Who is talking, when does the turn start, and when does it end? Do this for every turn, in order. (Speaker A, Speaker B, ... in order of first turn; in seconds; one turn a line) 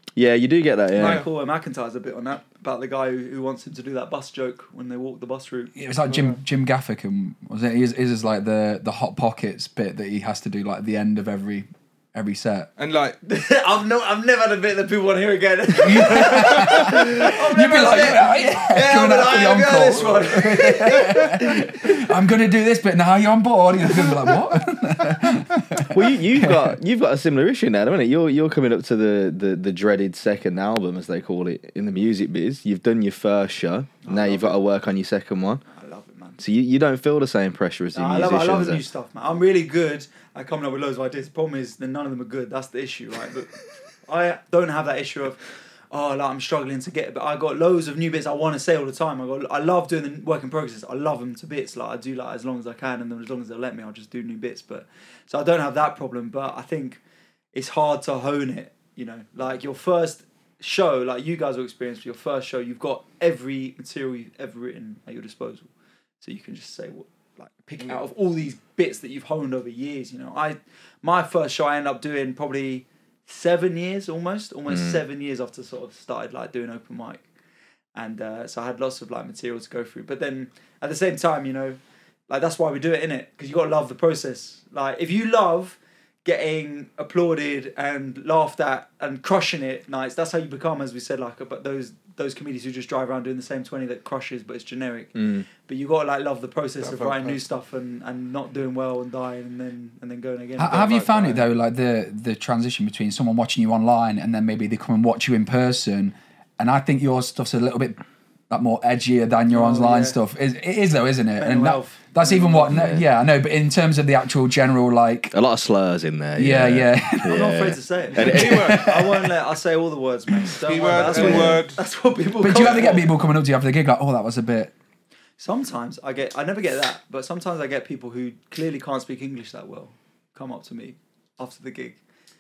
Speaker A: 0.2-1.2
Speaker B: 1.0-6.3
Speaker C: 5.8-12.7
Speaker D: 12.8-13.2
Speaker B: 13.2-21.9
Speaker C: 15.8-26.8
Speaker A: 25.9-35.6
Speaker B: 34.0-34.6
Speaker B: 35.7-36.4
Speaker A: 36.4-38.8
Speaker B: 38.0-57.0
Speaker B: 57.5-65.7
Speaker B: 66.2-77.2
Speaker A: 74.7-75.0
Speaker B: 78.0-101.4
Speaker A: 95.2-95.5
Speaker D: 96.8-97.4
Speaker C: 100.6-115.4
Speaker D: 101.1-101.4
Speaker B: 109.5-110.2
Speaker B: 111.4-112.7
Speaker A: 112.5-113.1
Speaker A: 115.3-118.9
Speaker C: 116.4-117.4
Speaker B: 117.2-123.1
Speaker D: 118.1-118.9
Speaker C: 118.3-119.3
Speaker D: 120.7-121.8
Speaker A: 120.9-121.7
Speaker C: 122.4-124.7
Speaker D: 122.7-123.0
Speaker B: 125.4-132.0